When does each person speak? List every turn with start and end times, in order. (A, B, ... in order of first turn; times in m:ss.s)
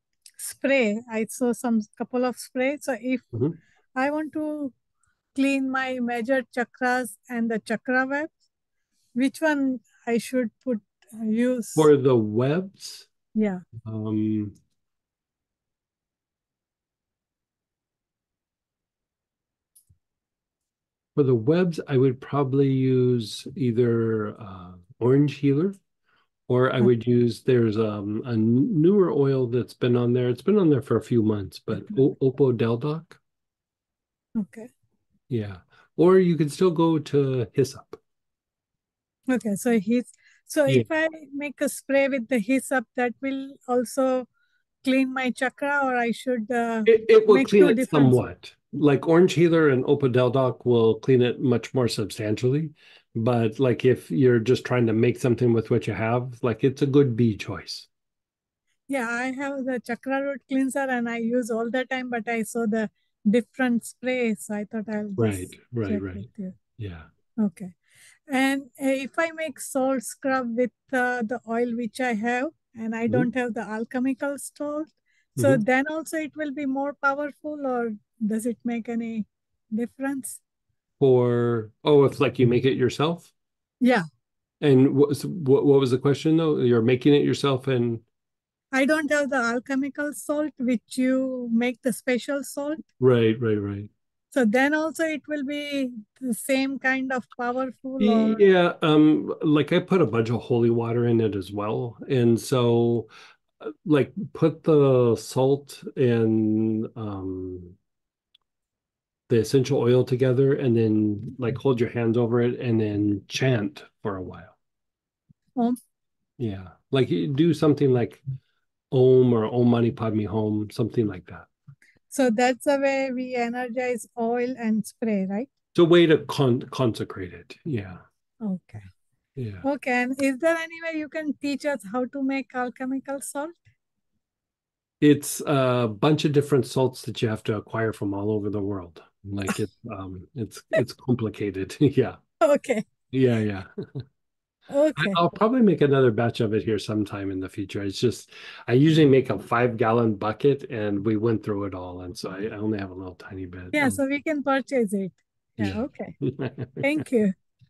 0:00.4-0:03.2 A
0:04.0-0:04.7 A
0:05.3-0:08.3 A
0:09.2-0:11.9 A
0:11.8-0:13.1 B
0:13.3-0:13.6 A
0:13.8-0:14.5 B
0:21.2-0:25.7 B
0:26.5-0:33.2 B
0:34.4-0:34.7 A
0:35.3-0:38.0 B
0:39.3-0:44.3 A
0:44.8-0:48.2 A
0:46.9-0:57.9 B
0:58.9-1:06.6 A
1:05.2-1:06.2 B
1:06.8-1:07.1 B
1:07.4-1:07.7 A
1:08.3-1:20.4 A
1:15.4-1:15.6 B
1:21.0-1:23.3 B
1:24.6-1:28.0 B
1:28.7-1:32.8 A
1:33.0-1:33.9 B
1:34.3-1:38.4 A
1:38.0-1:43.1 B
1:43.8-1:47.8 B
1:49.3-1:54.5 B
1:56.4-1:58.2 B
1:58.9-2:01.5 B
2:02.1-2:05.5 A
2:05.7-2:08.0 B
2:08.4-2:08.8 A
2:09.4-2:09.6 B
2:09.6-2:13.6 A
2:15.0-2:22.2 B
2:22.4-2:22.8 A
2:23.1-2:23.7 B
2:24.7-2:25.2 A
2:25.0-2:34.0 B
2:33.7-2:36.1 A
2:35.6-2:37.0 B
2:36.8-2:37.3 A